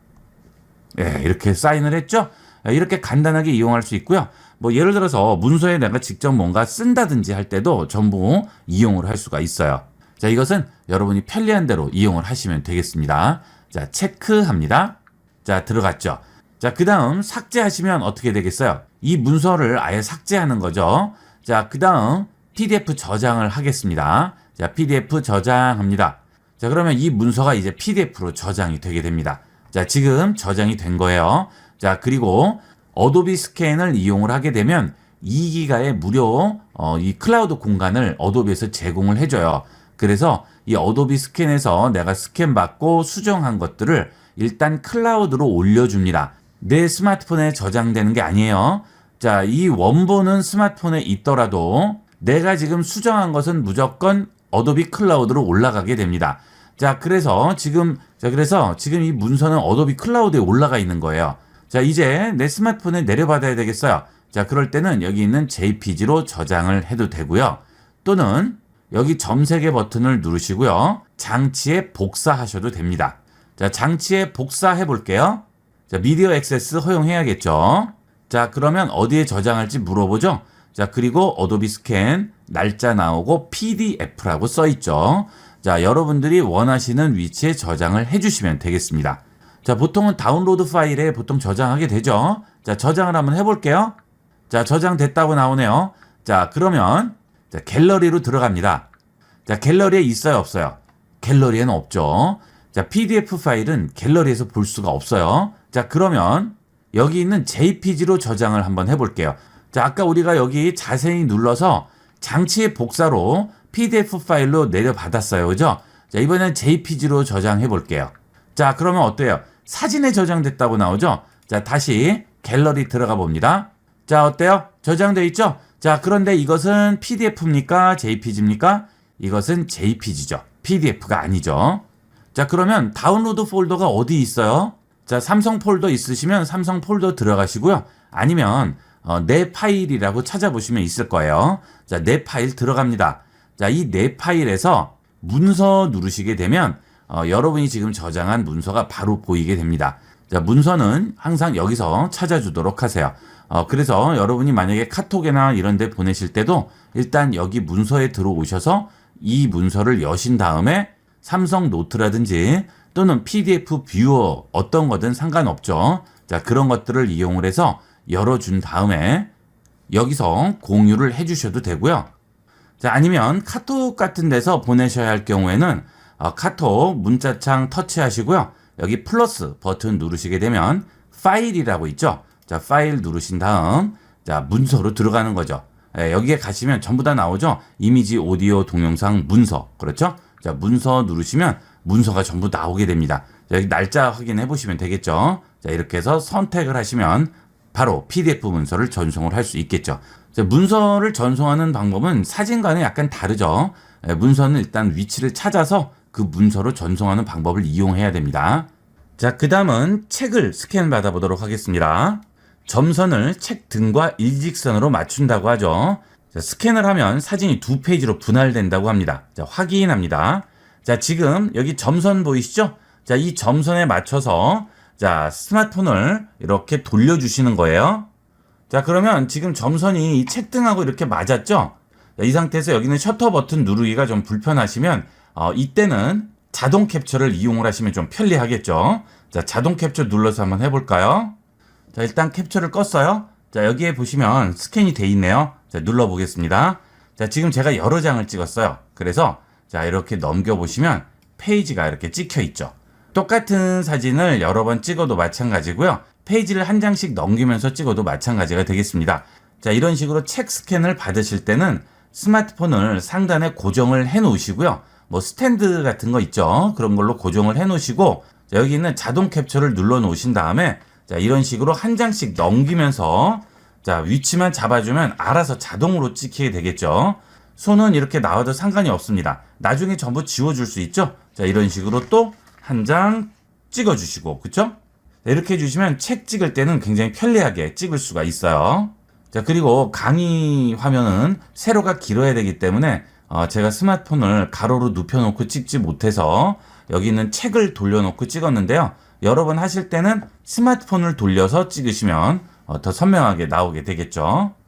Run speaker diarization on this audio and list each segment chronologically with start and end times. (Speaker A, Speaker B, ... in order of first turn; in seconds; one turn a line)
Speaker A: 0.9-94.0
Speaker A: 94.5-98.9
Speaker A: 99.5-131.8
Speaker A: 132.3-169.3
Speaker A: 169.9-172.1
Speaker A: 172.8-228.1
Speaker A: 228.7-241.3
Speaker A: 241.9-304.5